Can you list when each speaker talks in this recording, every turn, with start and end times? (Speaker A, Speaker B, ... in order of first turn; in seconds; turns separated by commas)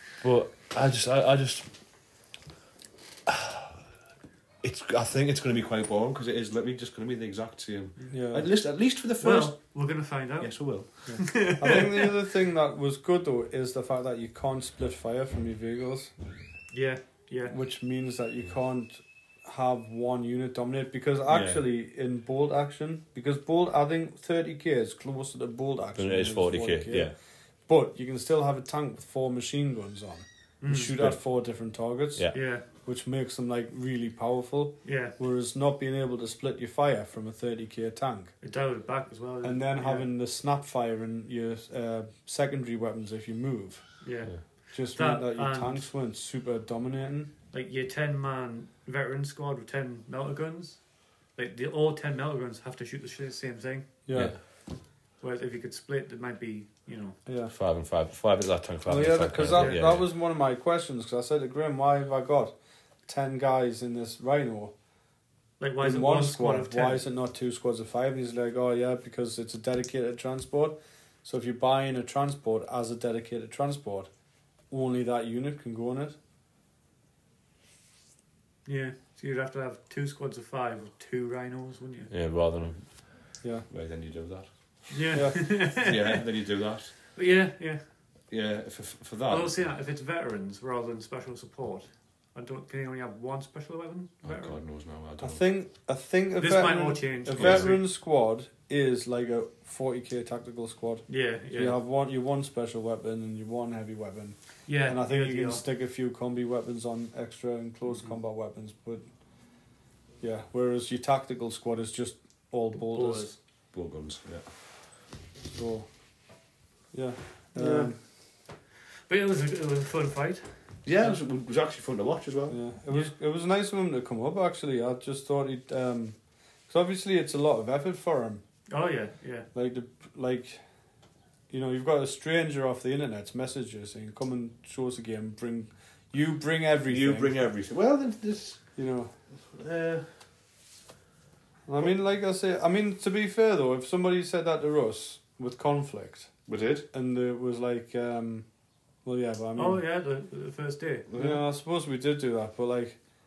Speaker A: 0.2-1.7, Speaker A: 3.3-3.8, Speaker A: 4.6-9.6, Speaker B: 8.1-8.5, Speaker C: 9.2-12.1, Speaker A: 10.4-10.9, Speaker B: 11.1-16.1, Speaker C: 16.7-17.6, Speaker B: 17.5-27.1, Speaker A: 21.3-21.6, Speaker A: 25.9-27.1, Speaker B: 27.7-38.3, Speaker C: 30.6-30.9, Speaker C: 32.3-32.6, Speaker C: 34.8-35.1, Speaker C: 38.4-40.1, Speaker B: 39.4-44.0, Speaker C: 44.0-45.9, Speaker B: 44.7-47.3, Speaker C: 47.5-50.8, Speaker C: 51.4-53.9, Speaker B: 54.1-54.4, Speaker C: 55.2-57.2, Speaker B: 57.3-57.5, Speaker A: 57.5-60.0, Speaker B: 58.9-62.5, Speaker C: 59.5-59.8, Speaker B: 63.1-64.7, Speaker C: 65.6-67.0, Speaker B: 65.8-74.1, Speaker B: 74.7-76.2, Speaker C: 78.7-82.1, Speaker A: 82.1-84.5, Speaker B: 83.4-83.7, Speaker C: 84.9-86.2, Speaker B: 85.1-85.6, Speaker A: 85.8-86.9, Speaker C: 87.1-87.8, Speaker A: 88.3-89.6, Speaker C: 89.3-94.6, Speaker A: 94.2-95.5, Speaker B: 95.2-109.0, Speaker C: 96.4-97.8, Speaker A: 97.3-97.7, Speaker C: 101.1-101.8, Speaker C: 104.7-105.6, Speaker B: 110.2-113.3, Speaker C: 112.8-113.4, Speaker A: 113.7-114.5, Speaker B: 115.5-115.9, Speaker B: 116.9-118.0, Speaker A: 117.6-117.9, Speaker C: 119.1-121.2, Speaker A: 120.8-122.6, Speaker B: 122.5-126.2, Speaker B: 126.7-128.4, Speaker C: 128.7-129.5, Speaker B: 129.5-130.6, Speaker B: 131.5-137.4, Speaker A: 136.9-138.6, Speaker B: 138.8-139.1, Speaker A: 139.5-140.1, Speaker B: 141.7-146.3, Speaker A: 146.5-146.9, Speaker B: 146.9-148.4, Speaker B: 149.1-149.8, Speaker C: 149.6-151.1, Speaker A: 151.1-151.4, Speaker B: 151.1-153.0